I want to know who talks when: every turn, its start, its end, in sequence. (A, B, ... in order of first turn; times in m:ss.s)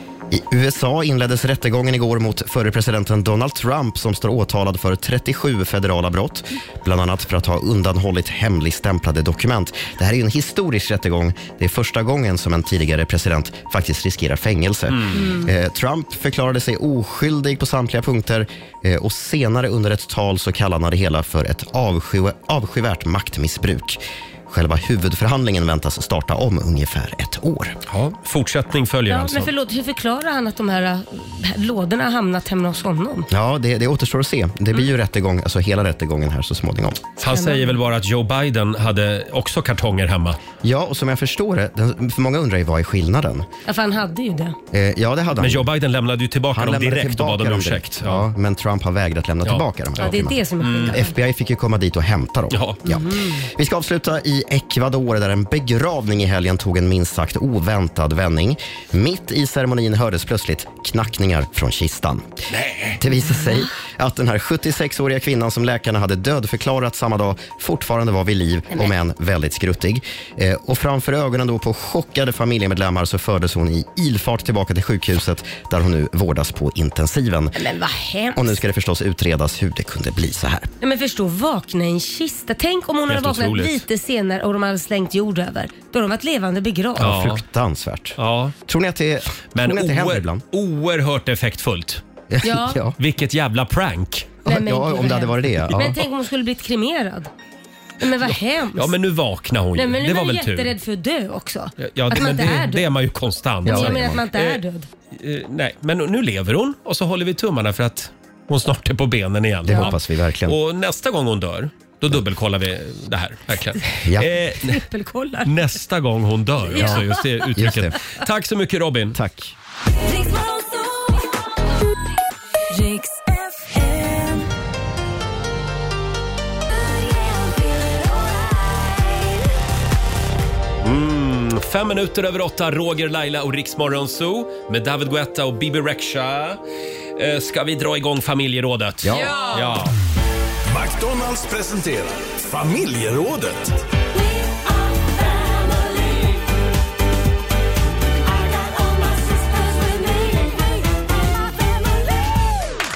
0:00.3-0:27.8 A
0:14.9-0:15.2 B
0:15.1-0:15.5 C
0:27.9-0:29.5 B
0:29.1-0:33.3 C
0:33.3-0:37.0 A
0:37.2-0:40.4 B
0:37.3-0:37.7 C
0:40.6-0:43.5 A
0:43.6-0:44.6 C
0:44.7-0:45.7 A
0:45.4-0:48.3 B
0:46.5-1:02.4 A
0:50.0-0:51.1 C
0:50.6-0:51.0 B
0:52.5-0:52.8 B
1:02.5-1:03.0 B
1:03.0-1:17.6 A
1:17.5-1:18.6 C
1:18.3-1:20.7 A
1:20.8-1:27.2 C
1:23.1-1:23.8 B
1:27.0-1:27.4 B
1:27.0-1:30.4 A
1:28.2-1:28.5 B
1:29.5-1:32.0 B
1:32.3-1:33.0 A
1:32.4-1:32.8 C
1:33.0-1:34.3 B
1:34.4-1:36.0 A
1:34.4-1:37.3 C
1:38.0-1:38.9 C
1:38.3-1:40.7 B
1:39.7-1:42.9 C
1:41.8-1:44.6 B
1:43.6-1:44.2 A
1:43.6-1:44.9 C
1:45.1-1:54.8 B
1:49.6-1:50.6 A
1:54.0-1:54.3 A
1:54.6-1:55.5 C
1:55.4-1:59.2 B
1:56.7-1:58.0 A
1:56.7-1:57.2 C
1:59.1-1:59.5 A
1:59.9-2:01.3 D
2:02.7-2:04.4 D
2:06.7-2:09.5 D
2:10.8-2:16.6 B
2:17.2-2:19.9 B
2:19.0-2:19.3 A
2:20.7-2:23.8 E
2:24.1-2:26.4 D
2:28.2-2:32.8 D